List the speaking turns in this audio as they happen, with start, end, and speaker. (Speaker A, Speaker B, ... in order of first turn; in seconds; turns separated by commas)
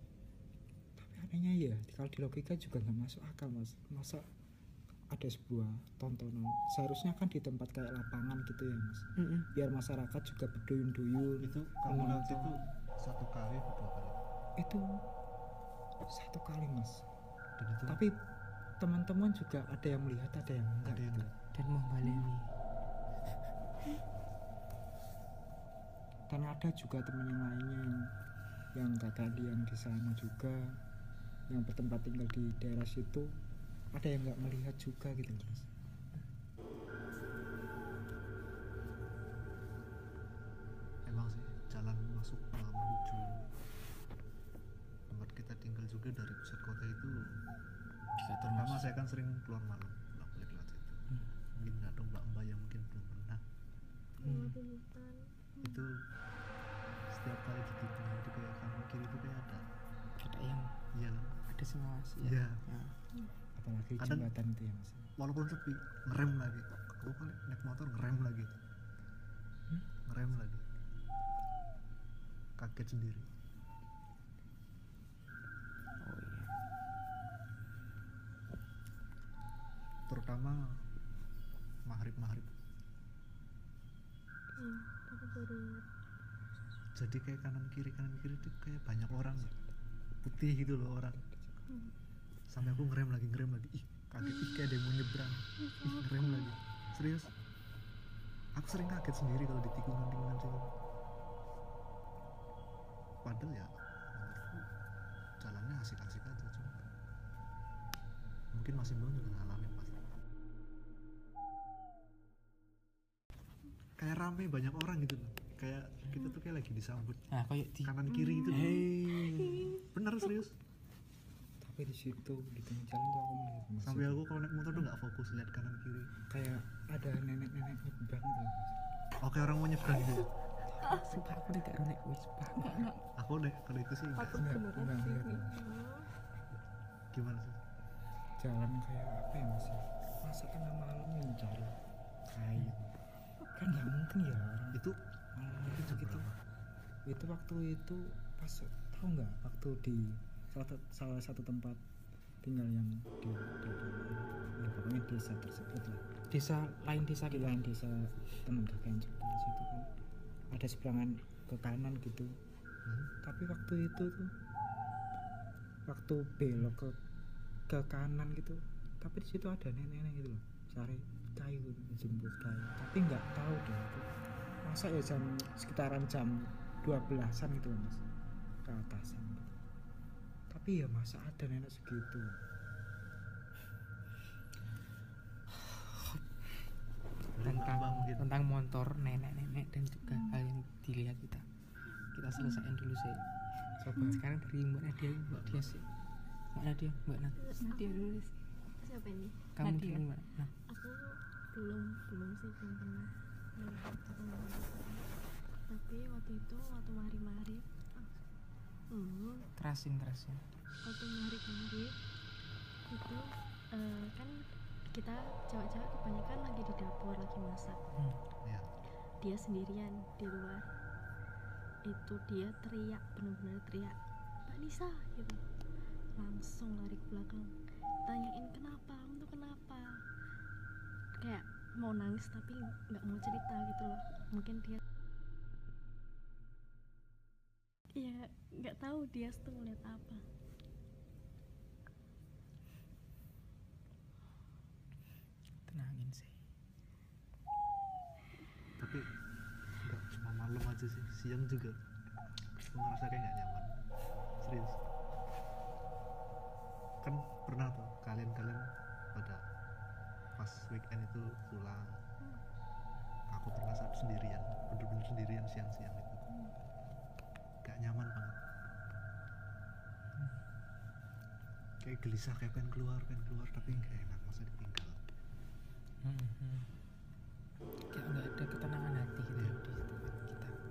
Speaker A: 1.0-4.2, Speaker A: 5.1-12.6, Speaker B: 9.2-9.5, Speaker C: 11.4-14.2, Speaker A: 14.6-14.8, Speaker A: 16.1-17.1, Speaker C: 17.6-18.0, Speaker A: 17.9-18.2, Speaker A: 18.8-21.3, Speaker C: 20.8-21.3, Speaker B: 21.5-22.5, Speaker A: 26.3-28.0, Speaker A: 28.8-30.8, Speaker A: 31.5-33.4, Speaker A: 33.9-35.7, Speaker C: 41.0-43.5, Speaker C: 45.1-47.2, Speaker B: 48.2-48.9, Speaker C: 48.4-51.0, Speaker C: 51.5-53.4, Speaker D: 54.2-55.9, Speaker B: 54.2-54.6, Speaker C: 55.6-55.9, Speaker C: 57.1-59.6, Speaker B: 60.2-60.7, Speaker C: 61.0-61.4, Speaker B: 61.5-63.0, Speaker C: 62.2-62.6, Speaker A: 63.6-65.1, Speaker C: 64.0-64.3, Speaker C: 65.2-68.5, Speaker C: 70.1-70.6, Speaker C: 72.6-73.3, Speaker B: 76.0-76.5, Speaker C: 80.1-80.6, Speaker C: 81.9-82.5, Speaker D: 84.6-85.8, Speaker C: 87.0-89.5, Speaker C: 90.2-91.2, Speaker C: 92.5-97.3, Speaker D: 94.2-94.7, Speaker D: 95.7-96.5, Speaker C: 98.6-100.7, Speaker C: 103.2-104.6, Speaker C: 105.4-106.8, Speaker C: 108.5-110.0, Speaker C: 114.0-117.3, Speaker B: 117.3-117.9, Speaker C: 117.8-120.6, Speaker E: 118.1-118.5, Speaker A: 118.8-119.5, Speaker A: 121.6-124.2, Speaker C: 123.8-126.1, Speaker A: 126.3-128.8, Speaker C: 129.2-130.3, Speaker B: 130.7-132.9, Speaker E: 132.6-133.0, Speaker C: 133.2-134.4, Speaker E: 134.2-135.5, Speaker A: 134.3-135.7, Speaker D: 135.5-136.1, Speaker C: 137.1-137.6, Speaker A: 138.4-141.8, Speaker A: 142.3-143.0, Speaker A: 143.5-144.8, Speaker A: 145.3-146.3, Speaker C: 145.7-146.4, Speaker A: 147.1-151.8, Speaker A: 152.4-156.0, Speaker B: 156.3-157.6, Speaker A: 157.3-159.9, Speaker A: 160.5-162.3, Speaker C: 162.9-163.1, Speaker A: 163.2-164.3, Speaker A: 165.9-167.0, Speaker A: 167.7-174.1, Speaker A: 174.7-178.0, Speaker A: 178.7-179.6, Speaker A: 180.5-182.4, Speaker B: 185.6-186.7, Speaker C: 187.4-188.4, Speaker B: 187.4-191.5, Speaker E: 190.1-190.4, Speaker B: 192.1-193.2, Speaker A: 193.8-194.2, Speaker B: 194.1-195.9, Speaker C: 195.2-195.7, Speaker B: 196.5-197.4, Speaker D: 197.4-198.1, Speaker E: 197.6-198.4, Speaker D: 198.8-199.4, Speaker B: 199.6-200.5, Speaker E: 199.6-200.1, Speaker D: 200.7-205.1, Speaker D: 205.7-208.1, Speaker D: 208.9-209.5, Speaker B: 209.6-210.4, Speaker D: 210.8-211.9, Speaker D: 212.9-217.8, Speaker B: 218.0-218.2, Speaker D: 219.2-220.7, Speaker D: 221.9-225.4, Speaker D: 226.2-230.0, Speaker D: 231.2-234.8, Speaker D: 238.0-240.2, Speaker B: 245.7-246.4, Speaker C: 248.8-249.1, Speaker C: 249.8-251.8, Speaker C: 252.6-253.7, Speaker C: 254.4-254.8, Speaker C: 257.0-259.4, Speaker C: 260.4-261.9, Speaker C: 263.3-266.3, Speaker C: 267.6-268.4, Speaker B: 270.1-270.4, Speaker C: 271.8-275.0, Speaker B: 276.0-276.7, Speaker B: 277.9-280.6